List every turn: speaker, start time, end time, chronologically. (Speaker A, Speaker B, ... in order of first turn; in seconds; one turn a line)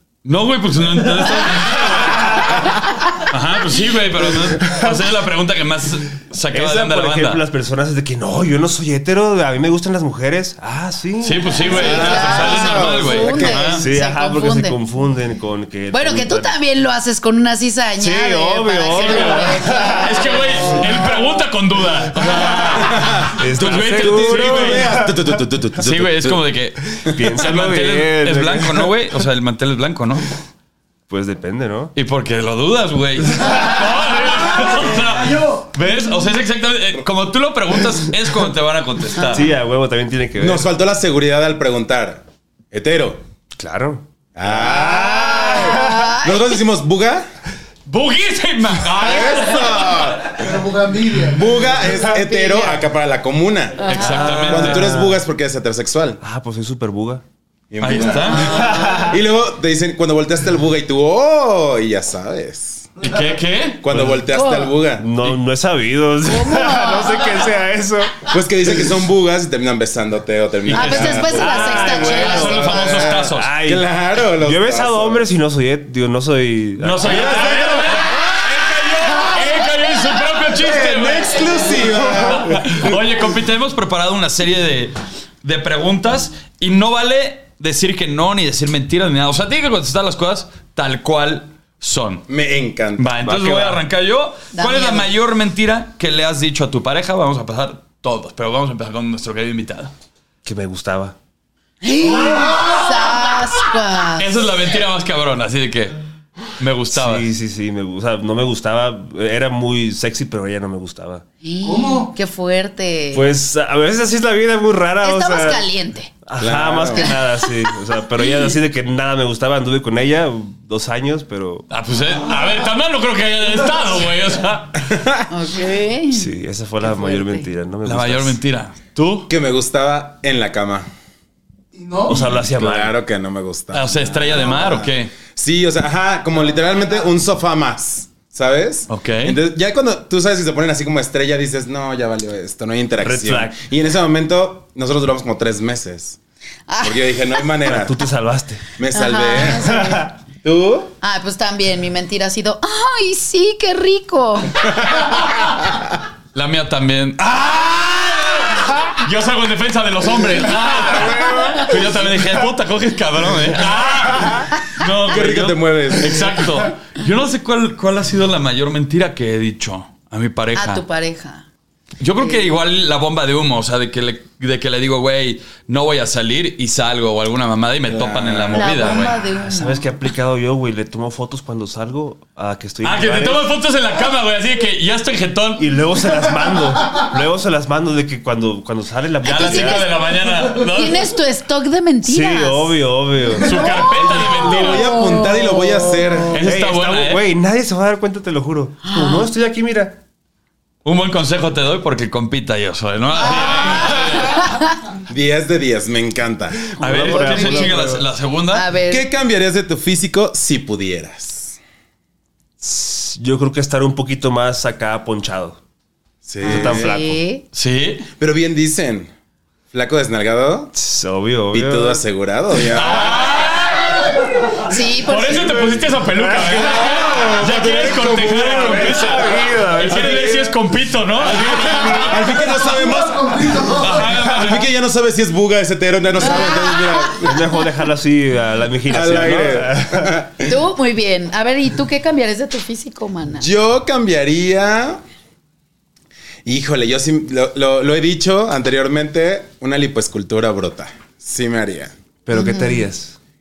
Speaker A: 0.2-2.5
Speaker B: 1.3-2.6
Speaker C: 2.7-3.2
Speaker A: 3.2-7.4
Speaker B: 4.3-5.0
Speaker B: 6.5-12.6
Speaker A: 11.2-13.9
Speaker D: 11.7-13.7
Speaker C: 11.7-14.8
Speaker B: 13.3-16.5
Speaker C: 15.9-20.9
Speaker B: 18.0-20.9
Speaker A: 18.9-25.0
Speaker B: 22.7-25.4
Speaker D: 22.7-26.4
Speaker A: 25.8-30.3
Speaker B: 27.0-28.9
Speaker B: 31.1-31.9
Speaker A: 31.9-39.5
Speaker E: 34.7-35.5
Speaker B: 39.2-40.7
Speaker D: 40.4-43.2
Speaker B: 43.6-46.1
Speaker D: 44.4-47.2
Speaker C: 45.3-46.6
Speaker A: 47.9-50.3
Speaker D: 48.9-50.5
Speaker E: 50.4-51.8
Speaker D: 51.2-56.2
Speaker C: 51.9-52.9
Speaker C: 53.8-54.4
Speaker A: 53.9-55.0
Speaker B: 54.2-55.2
Speaker B: 56.2-57.2
Speaker D: 57.7-62.9
Speaker A: 57.8-58.7
Speaker C: 58.3-59.1
Speaker B: 58.4-59.2
Speaker A: 63.0-63.8
Speaker D: 63.8-65.1
Speaker B: 63.9-64.2
Speaker C: 64.3-64.8
Speaker B: 65.0-68.3
Speaker C: 66.2-67.5
Speaker D: 68.3-72.1
Speaker A: 70.7-73.5
Speaker C: 70.7-73.2
Speaker B: 71.3-77.6
Speaker D: 72.7-75.2
Speaker A: 76.8-92.2
Speaker D: 77.0-78.4
Speaker D: 80.5-83.0
Speaker D: 92.3-93.1
Speaker A: 93.0-99.9
Speaker B: 93.2-93.8
Speaker C: 94.5-95.1
Speaker B: 100.4-101.2
Speaker C: 101.8-104.3
Speaker E: 102.1-103.3
Speaker A: 104.2-106.0
Speaker A: 106.6-107.3
Speaker B: 106.9-111.2
Speaker C: 111.4-113.3
Speaker E: 111.6-112.1
Speaker B: 113.1-115.7
Speaker C: 115.0-116.1
Speaker B: 116.2-121.7
Speaker D: 116.4-117.1
Speaker C: 116.9-117.7
Speaker A: 121.7-124.9
Speaker D: 124.9-125.2
Speaker C: 125.3-127.5
Speaker B: 126.1-128.4
Speaker A: 127.8-129.3
Speaker D: 129.3-130.9
Speaker E: 131.8-132.2
Speaker B: 132.1-132.9
Speaker D: 132.2-146.2
Speaker A: 133.7-135.2
Speaker E: 136.7-137.0
Speaker A: 138.9-139.4
Speaker B: 143.0-143.6
Speaker C: 146.7-147.5
Speaker D: 146.8-148.0
Speaker B: 147.6-148.6
Speaker D: 148.8-149.8
Speaker C: 148.9-150.1
Speaker B: 149.7-150.0
Speaker D: 150.4-150.9
Speaker C: 151.0-154.8
Speaker D: 154.9-155.5
Speaker A: 156.3-170.8
Speaker D: 165.1-166.4
Speaker C: 170.6-171.5
Speaker A: 172.0-179.2
Speaker C: 172.2-172.5
Speaker D: 177.9-178.7
Speaker C: 178.6-179.9
Speaker B: 179.3-183.5
Speaker A: 182.8-185.7
Speaker B: 185.6-190.0
Speaker C: 189.2-190.1
Speaker A: 189.2-191.1
Speaker C: 190.6-192.9
Speaker B: 192.0-194.2
Speaker A: 193.4-195.0
Speaker C: 193.5-196.2
Speaker D: 194.1-196.4
Speaker A: 196.3-197.2
Speaker B: 196.4-200.0
Speaker C: 198.8-199.3
Speaker A: 200.8-204.6
Speaker C: 203.5-204.8
Speaker D: 205.1-206.7
Speaker B: 206.8-208.1
Speaker C: 206.8-207.8
Speaker A: 206.8-208.7
Speaker C: 208.5-209.1
Speaker D: 208.9-211.6
Speaker B: 212.6-215.6
Speaker D: 216.2-216.9
Speaker B: 216.4-217.2
Speaker C: 216.4-217.4
Speaker A: 217.5-218.1
Speaker D: 218.2-219.1
Speaker D: 219.7-220.7
Speaker B: 220.8-222.0
Speaker D: 221.5-223.3
Speaker A: 222.7-232.5
Speaker C: 224.6-225.8
Speaker B: 225.4-227.3
Speaker D: 226.4-230.5
Speaker B: 228.1-230.6
Speaker B: 231.2-232.0
Speaker D: 231.9-233.5
Speaker E: 232.2-234.1
Speaker A: 233.6-234.7
Speaker D: 234.2-237.4
Speaker C: 236.2-237.7
Speaker B: 237.2-240.2
Speaker D: 238.9-240.6
Speaker C: 240.4-243.5
Speaker D: 243.4-245.0
Speaker D: 246.4-251.9
Speaker B: 252.2-253.2
Speaker C: 252.3-252.9